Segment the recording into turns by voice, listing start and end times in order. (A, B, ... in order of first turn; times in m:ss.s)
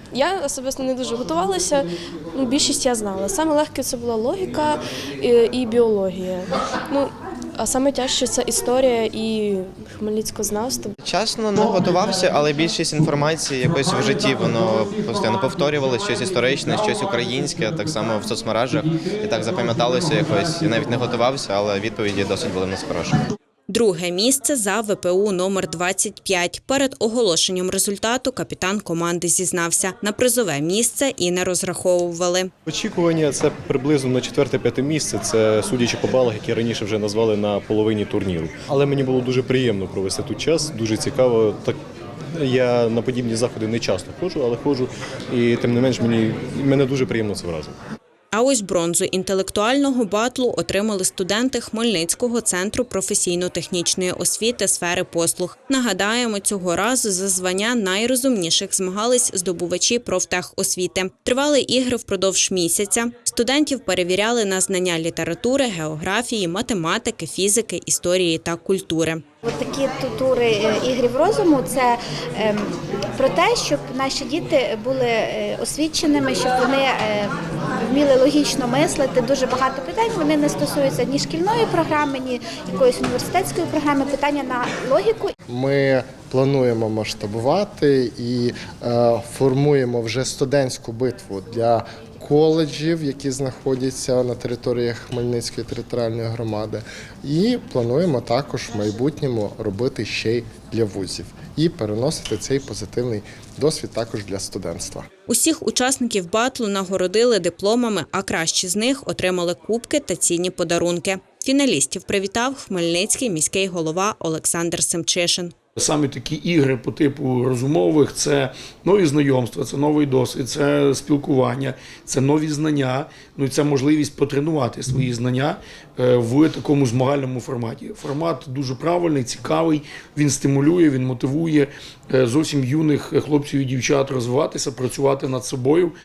0:00.1-0:10.9 A
0:11.0-0:23.2 B
0:23.7-0:32.5 C
0:32.6-0:41.8 D
0:42.3-0:47.7 D
0:48.3-1:09.2 C
1:09.5-1:17.3 E
1:17.8-1:25.3 E
1:25.5-1:45.0 F
1:45.3-1:55.5 C
1:55.8-2:15.9 G